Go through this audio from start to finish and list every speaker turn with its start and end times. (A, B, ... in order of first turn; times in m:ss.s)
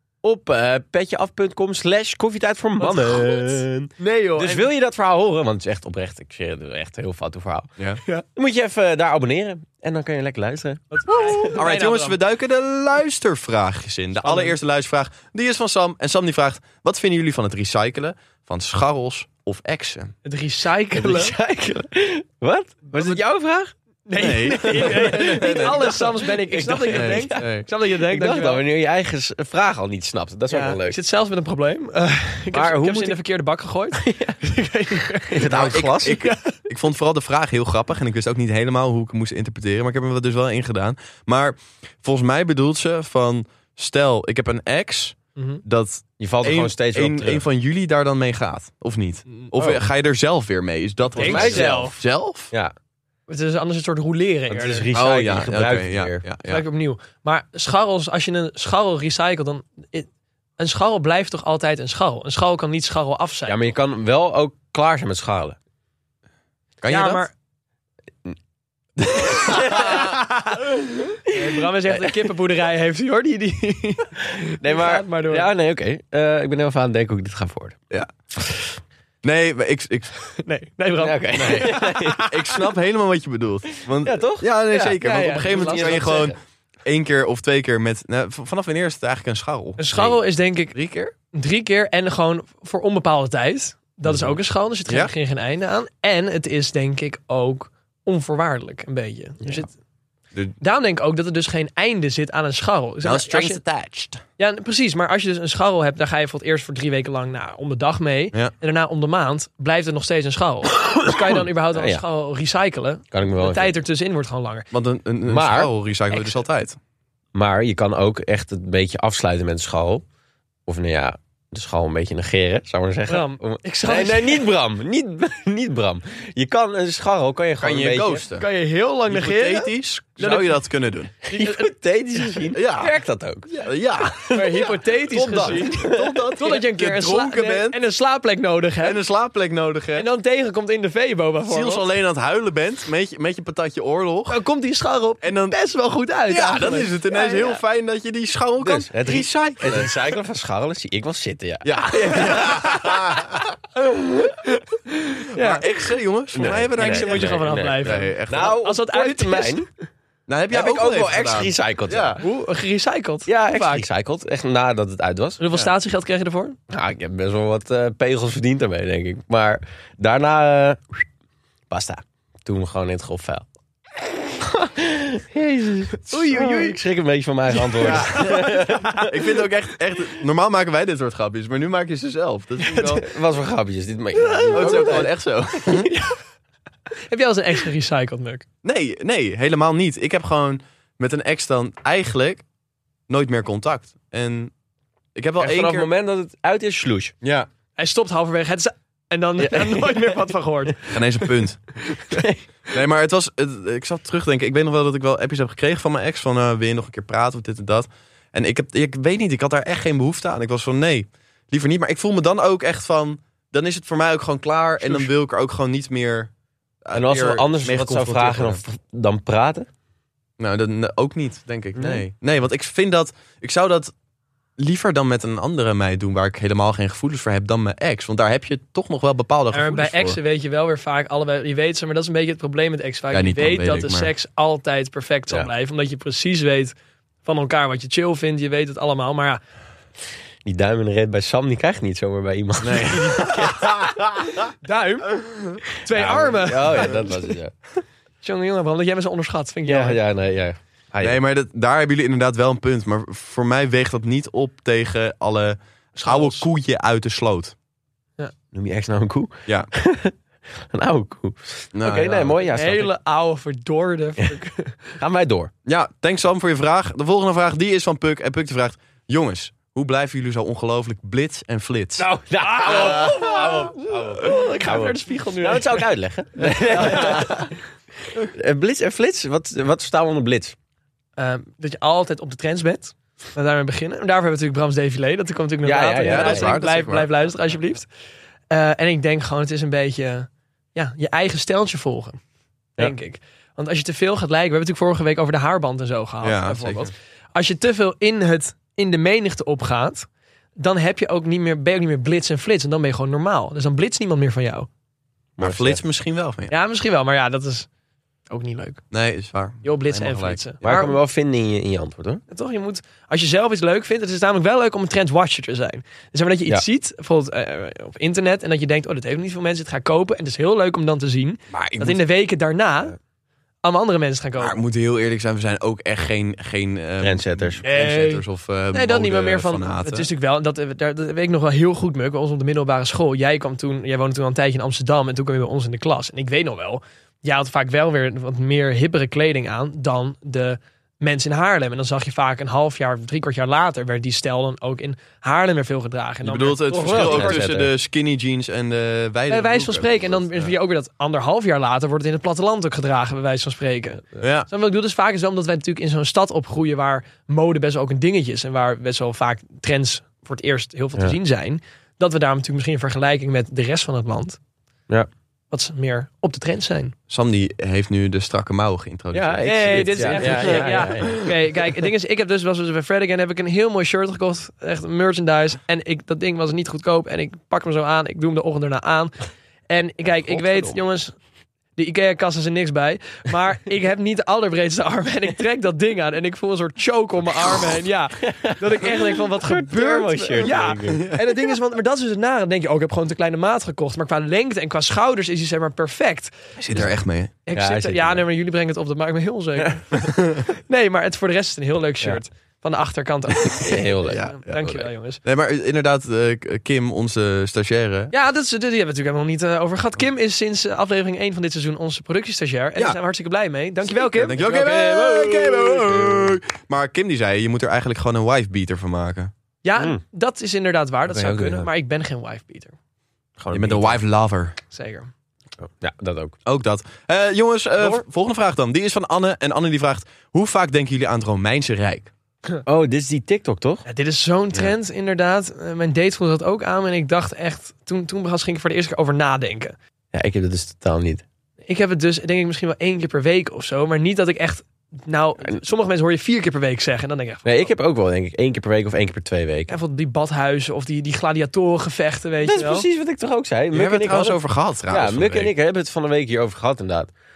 0:00.2-0:07.7 A
0:02.8-0:04.7 B
0:08.4-0:11.5 A
0:10.9-0:12.2 B
0:11.1-0:20.1 C
0:14.2-0:14.5 B
0:20.2-0:21.3 B
0:20.9-0:23.7 A
0:22.9-0:23.2 B
0:24.1-0:28.6 B
0:24.2-0:25.8 C
0:24.6-0:31.0 A
0:26.9-0:27.6 C
0:30.5-0:36.5 B
0:32.5-0:33.2 A
0:34.0-0:34.4 A
0:35.3-0:36.2 A
0:35.4-0:52.5 C
0:45.4-0:45.6 B
0:46.2-0:47.4 A
0:49.3-0:49.8 B
0:51.2-0:51.9 B
0:51.2-0:51.9 A
0:53.3-0:54.9 B
0:54.5-0:56.2 A
0:54.9-0:56.6 C
0:56.5-1:00.1 B
1:00.6-1:03.6 B
1:03.5-1:05.6 A
1:06.8-1:07.3 C
1:06.9-1:07.3 B
1:09.0-1:10.1 C
1:09.2-1:10.1 A
1:10.3-1:10.6 B
1:11.2-1:15.5 B
1:11.7-1:12.1 A
1:14.6-1:17.8 A
1:19.2-1:20.1 C
1:20.4-1:22.3 B
1:21.0-1:22.3 A
1:21.4-1:29.9 C
1:24.0-1:24.5 A
1:24.7-1:26.3 B
1:25.4-1:26.4 A
1:29.8-1:30.7 B
1:30.7-1:31.1 C
1:31.3-1:39.7 B
1:34.1-1:34.3 A
1:40.6-1:43.6 B
1:43.0-1:44.2 C
1:44.4-1:54.6 B
1:51.7-1:52.0 A
1:53.1-1:53.7 A
1:54.7-1:56.8 C
1:55.3-1:55.7 A
1:57.3-2:00.0 A
2:00.7-2:08.2 A
2:03.1-2:04.5 B
2:07.6-2:08.4 C
2:08.4-2:10.5 B
2:09.1-2:11.1 C
2:11.2-2:13.5 A
2:11.3-2:12.4 B
2:12.5-2:12.9 C
2:13.5-2:14.5 C
2:14.2-2:16.3 A
2:14.3-2:19.0 B
2:15.4-2:17.8 C
2:18.8-2:20.1 C
2:20.0-2:21.8 B
2:21.5-2:24.4 C
2:24.3-2:27.6 B
2:25.2-2:25.6 C
2:26.3-2:29.9 C
2:28.6-2:32.8 A
2:31.6-2:33.4 C
2:33.9-2:35.6 B
2:35.4-2:38.6 C
2:36.3-2:39.7 A
2:36.8-2:39.6 B
2:40.3-2:42.2 C
2:40.5-2:42.2 A
2:42.2-2:43.8 B
2:43.3-2:45.4 A
2:45.4-2:46.6 B
2:46.7-2:51.0 A
2:51.7-2:53.4 A
2:54.6-2:59.1 A
2:56.1-2:56.8 B
2:57.6-2:59.0 B
2:57.8-3:03.0 C
3:02.6-3:03.0 B
3:03.0-3:05.1 A
3:04.2-3:05.0 B
3:04.5-3:05.9 C
3:05.6-3:06.2 B
3:07.1-3:08.4 B
3:08.6-3:12.4 C
3:13.1-3:14.5 C
3:15.1-3:15.9 C
3:15.4-3:17.1 A
3:17.2-3:17.5 C
3:17.8-3:21.0 B
3:19.4-3:20.2 A
3:20.9-3:21.6 C
3:21.8-3:22.2 B
3:22.1-3:22.4 A
3:22.7-3:36.3 C
3:36.8-3:38.6 C
3:36.9-3:39.7 A
3:40.4-3:43.9 C
3:41.8-3:42.0 A
3:44.6-3:50.2 C
3:49.5-3:59.4 B
3:53.1-3:54.1 C
4:00.4-4:03.6 A
4:02.6-4:04.3 C
4:04.6-4:07.1 B
4:05.9-4:07.5 A
4:06.8-4:07.2 C
4:08.2-4:10.0 B
4:09.6-4:11.2 A
4:11.0-4:17.5 C
4:16.0-4:16.5 B
4:18.5-4:20.1 A
4:20.7-4:22.9 A
4:21.7-4:22.3 C
4:22.4-4:24.9 B
4:25.0-4:25.5 A
4:25.6-4:32.1 C
4:32.0-4:37.5 A
4:32.4-4:35.8 B
4:32.6-4:33.4 C
4:36.4-4:37.3 C
4:36.7-4:37.5 B
4:38.2-4:40.5 A
4:41.2-4:47.9 B
4:45.6-4:46.6 A
4:46.0-4:47.1 C
4:48.5-4:52.2 B
4:52.8-5:04.7 B
4:56.2-4:56.9 C
5:05.4-5:05.8 A
5:05.4-5:06.5 C
5:06.5-5:07.7 B
5:08.3-5:08.8 B
5:08.9-5:10.4 C
5:09.6-5:11.0 B
5:10.6-5:12.2 A
5:12.3-5:22.9 B
5:21.5-5:22.0 C
5:23.6-5:24.6 B
5:24.4-5:30.1 C
5:27.0-5:27.6 A
5:27.6-5:47.4 B
5:46.2-5:50.5 C
5:46.8-5:47.7 A
5:49.3-6:04.4 B
5:54.2-5:54.5 C
6:05.5-6:06.9 B
6:07.1-6:11.3 C
6:09.1-6:11.2 A
6:09.4-6:19.2 B
6:19.7-6:21.1 B
6:20.2-6:20.8 A
6:21.8-6:36.3 B
6:28.2-6:31.0 A
6:30.9-6:31.3 C
6:36.6-6:37.3 C
6:37.4-6:45.2 B
6:37.5-6:38.2 A
6:40.0-6:40.4 C
6:43.5-6:44.9 A
6:44.0-6:44.6 C
6:45.2-6:48.1 C
6:48.1-6:54.4 B
6:53.9-6:59.3 C
6:54.3-6:56.3 A
6:59.6-7:02.7 B
7:01.1-7:01.7 A
7:03.4-7:04.0 A
7:03.5-7:04.5 C
7:04.7-7:05.1 B
7:05.6-7:06.4 A
7:06.4-7:12.1 C
7:12.6-7:13.8 A
7:13.8-7:19.8 B
7:20.1-7:21.2 A
7:21.7-7:27.7 B
7:27.4-7:29.7 A
7:29.7-7:32.8 B
7:32.4-7:37.1 A
7:33.7-7:35.5 C